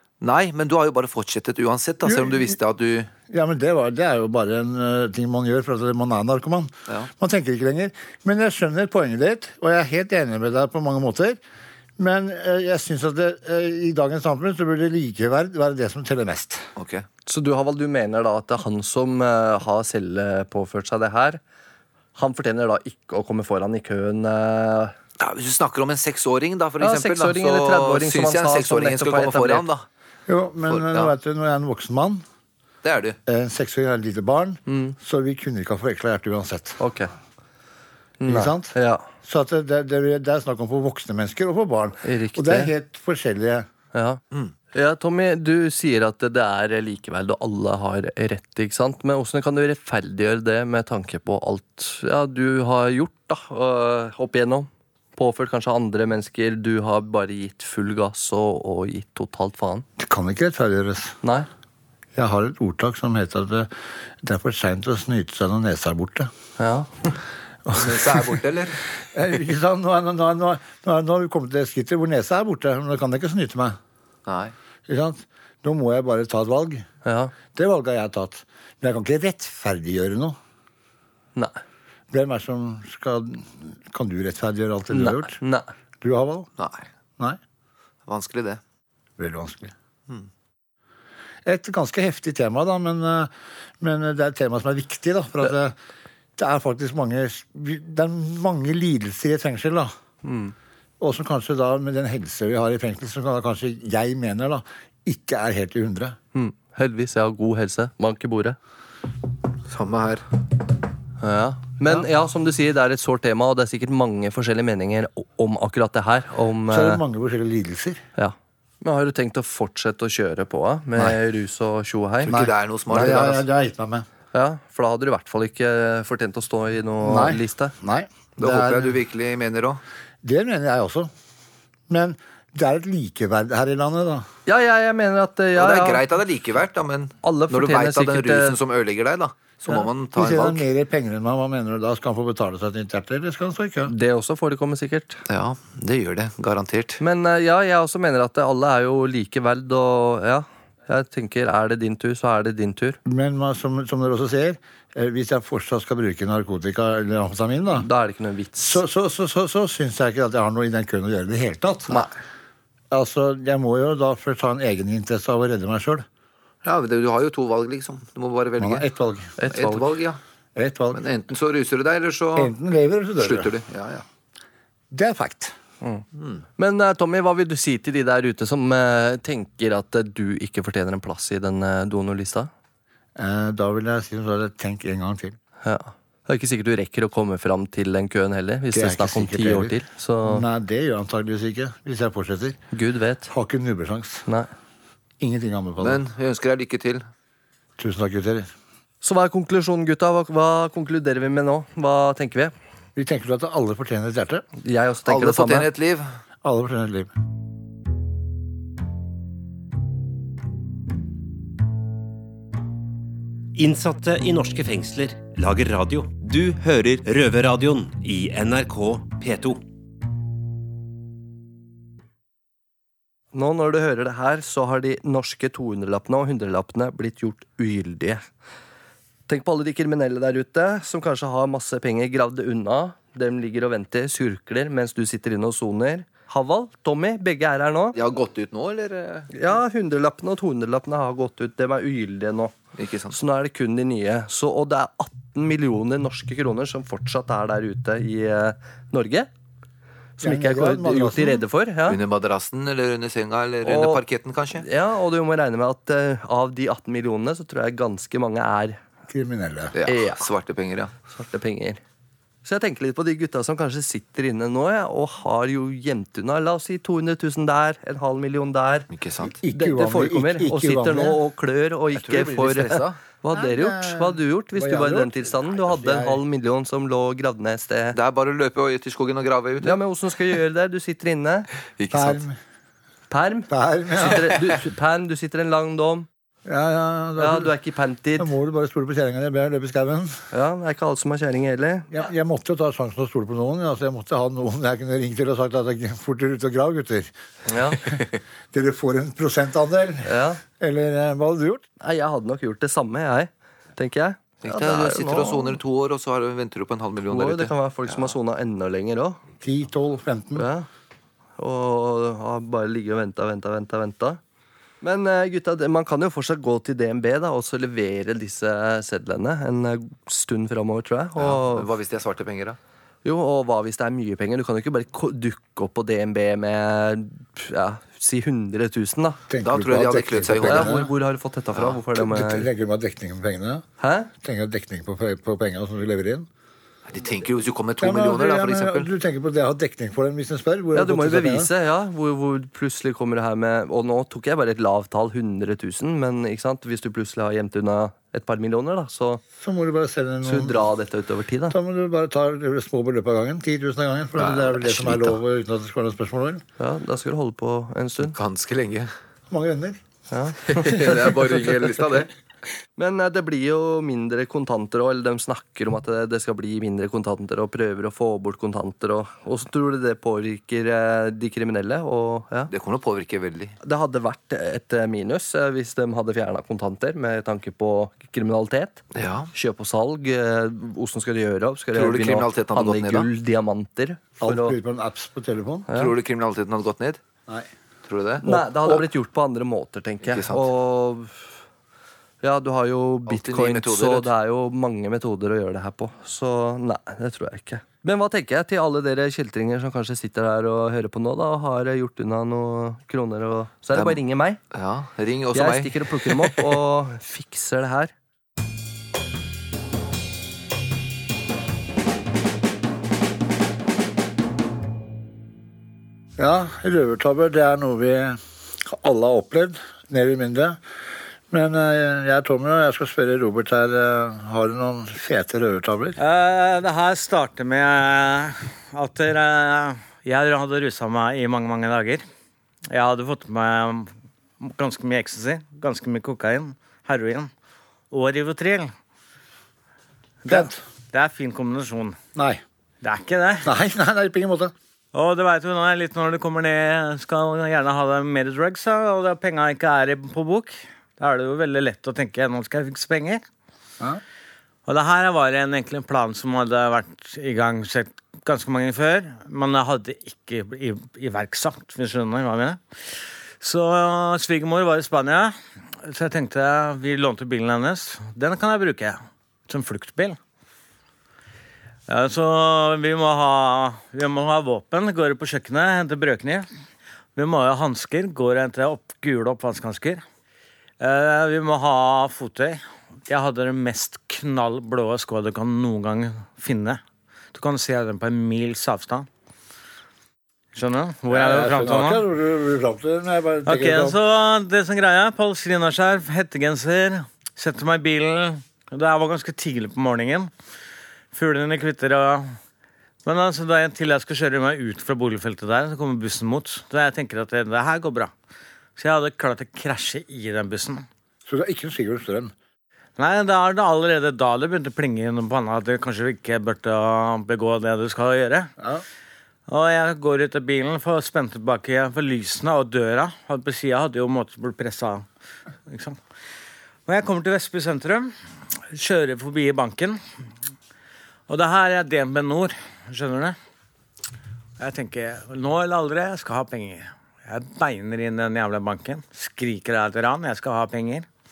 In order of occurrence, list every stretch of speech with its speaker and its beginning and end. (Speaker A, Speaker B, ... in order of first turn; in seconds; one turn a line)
Speaker A: 0.2-3.1
Speaker B: 2.1-2.5
Speaker B: 3.3-11.4
Speaker B: 12.0-16.7
Speaker A: 16.8-17.1
Speaker C: 17.3-21.4
Speaker C: 22.2-24.9
Speaker A: 25.2-29.9
Speaker C: 26.8-29.6
Speaker B: 30.3-32.2
Speaker A: 30.7-31.1
Speaker A: 32.8-33.2
Speaker B: 33.3-36.8
Speaker C: 34.7-35.0
Speaker C: 36.8-37.1
Speaker C: 38.2-39.1
Speaker B: 38.3-43.7
Speaker C: 42.0-42.7
Speaker C: 43.9-44.2
Speaker C: 44.7-59.9
Speaker B: 60.0-61.1
Speaker C: 61.2-61.5
Speaker B: 62.1-63.7
Speaker B: 64.2-66.3
Speaker C: 66.6-66.9
Speaker B: 67.7-68.4
Speaker A: 67.7-68.8
Speaker B: 69.1-73.8
Speaker A: 74.3-74.5
Speaker B: 74.9-76.8
Speaker C: 77.0-77.3
Speaker B: 77.5-80.4
Speaker B: 82.1-85.4
Speaker C: 84.9-85.7
Speaker B: 86.0-86.5
Speaker A: 86.6-86.9
Speaker A: 88.1-88.6
Speaker B: 89.2-89.7
Speaker B: 91.5-95.8
Speaker B: 96.4-99.9
Speaker C: 100.2-100.5
Speaker B: 101.0-106.2
Speaker C: 106.3-108.6
Speaker A: 109.7-110.2
Speaker C: 111.2-117.0
Speaker B: 116.7-118.0
Speaker C: 118.2-122.3
Speaker A: 122.2-123.5
Speaker B: 122.3-124.1
Speaker C: 124.3-127.7
Speaker B: 127.0-129.0
Speaker A: 128.4-129.8
Speaker B: 130.2-131.1
Speaker B: 131.9-134.3
Speaker C: 134.5-136.0
Speaker A: 135.6-140.7
Speaker C: 137.2-138.6
Speaker B: 140.1-143.9
Speaker C: 143.9-145.2
Speaker A: 145.3-147.0
Speaker C: 147.0-153.0
Speaker B: 153.1-157.9
Speaker C: 157.7-158.8
Speaker B: 158.6-162.1
Speaker B: 162.9-166.1
Speaker A: 166.6-168.8
Speaker B: 168.6-169.4
Speaker C: 169.4-169.9
Speaker A: 169.4-170.2
Speaker B: 170.6-171.0
Speaker A: 170.9-172.5
Speaker B: 172.4-173.6
Speaker A: 173.2-174.0
Speaker B: 174.9-175.5
Speaker A: 176.2-176.4
Speaker C: 176.6-182.5
Speaker B: 183.2-185.4
Speaker C: 185.6-190.5
Speaker B: 188.7-192.6
Speaker C: 192.7-193.3
Speaker B: 193.3-194.3
Speaker B: 195.2-196.0
Speaker A: 195.8-197.0
Speaker B: 197.8-198.5
Speaker C: 199.0-202.5
Speaker B: 203.0-204.4
Speaker C: 204.6-205.7
Speaker A: 205.1-206.1
Speaker B: 206.4-207.1
Speaker D: 213.6-219.6
Speaker C: 223.3-228.2
Speaker C: 229.3-238.0
Speaker A: 237.9-239.3
Speaker C: 239.3-242.5
Speaker A: 242.8-243.2
Speaker C: 243.1-249.3
Speaker C: 250.2-252.0
Speaker B: 250.2-251.4
Speaker A: 251.8-254.7
Speaker C: 253.7-254.0
Speaker C: 254.6-258.8
Speaker B: 259.1-259.8
Speaker A: 259.7-260.9
Speaker C: 259.9-260.2
Speaker C: 261.1-261.8
Speaker C: 262.4-268.9
Speaker A: 268.9-269.4
Speaker B: 269.4-271.2
Speaker C: 269.5-278.0
Speaker A: 271.9-273.0
Speaker B: 273.3-276.2
Speaker A: 277.9-279.8
Speaker C: 279.6-281.5
Speaker A: 281.8-282.2
Speaker B: 281.9-282.4
Speaker C: 283.1-286.1
Speaker B: 283.5-284.4
Speaker B: 286.5-287.5
Speaker C: 287.2-288.3
Speaker B: 288.2-290.2
Speaker C: 290.3-291.9
Speaker B: 291.9-297.1
Speaker C: 297.5-297.8
Speaker B: 298.5-301.6
Speaker C: 300.1-300.4
Speaker C: 301.8-305.6
Speaker A: 304.4-308.1
Speaker C: 307.1-309.2
Speaker B: 309.4-310.5
Speaker C: 310.4-310.7
Speaker C: 311.4-314.2
Speaker C: 314.8-321.7
Speaker A: 321.2-322.6
Speaker C: 323.1-329.2
Speaker B: 329.3-330.9
Speaker A: 329.4-330.9
Speaker C: 330.4-332.5
Speaker A: 331.5-331.8
Speaker B: 331.9-336.3
Speaker C: 333.8-334.1
Speaker A: 336.9-338.9
Speaker B: 337.8-341.5
Speaker C: 340.7-349.2
Speaker B: 349.4-350.7
Speaker C: 350.2-351.6
Speaker B: 351.5-356.4
Speaker A: 354.2-355.2
Speaker C: 356.6-358.2
Speaker A: 358.1-358.9
Speaker B: 359.3-359.8
Speaker C: 360.1-361.9
Speaker A: 360.5-362.1
Speaker C: 362.8-372.5
Speaker A: 372.5-373.5
Speaker C: 373.6-384.6
Speaker A: 378.9-379.3
Speaker A: 381.7-383.1
Speaker B: 384.2-385.7
Speaker A: 385.7-387.0
Speaker A: 387.9-388.9
Speaker C: 388.2-391.1
Speaker A: 390.1-390.5
Speaker C: 392.2-404.4
Speaker A: 393.1-394.1
Speaker A: 403.7-404.0
Speaker A: 404.5-406.6
Speaker C: 405.3-407.9
Speaker B: 416.2-420.6
Speaker B: 421.3-426.0
Speaker E: 426.0-432.1
Speaker E: 432.7-437.3
Speaker E: 437.9-438.7
Speaker E: 440.2-442.0
Speaker B: 440.3-440.6
Speaker B: 442.2-442.4
Speaker E: 442.8-443.5
Speaker B: 443.4-444.5
Speaker E: 444.9-453.2
Speaker E: 454.7-462.6
Speaker E: 463.4-465.3
Speaker E: 465.9-470.2
Speaker E: 471.9-476.5
Speaker E: 477.2-480.0
Speaker E: 480.8-486.8
Speaker E: 487.3-489.1
Speaker E: 490.5-492.0
Speaker B: 491.1-494.0
Speaker E: 493.5-500.3
Speaker E: 501.1-502.4
Speaker E: 503.1-508.1
Speaker E: 508.8-510.9
Speaker B: 511.3-512.3
Speaker E: 513.0-518.5
Speaker E: 519.5-525.1
Speaker E: 525.7-526.0
Speaker E: 526.9-528.1
Speaker E: 528.7-530.0
Speaker E: 531.3-533.4
Speaker E: 534.6-541.1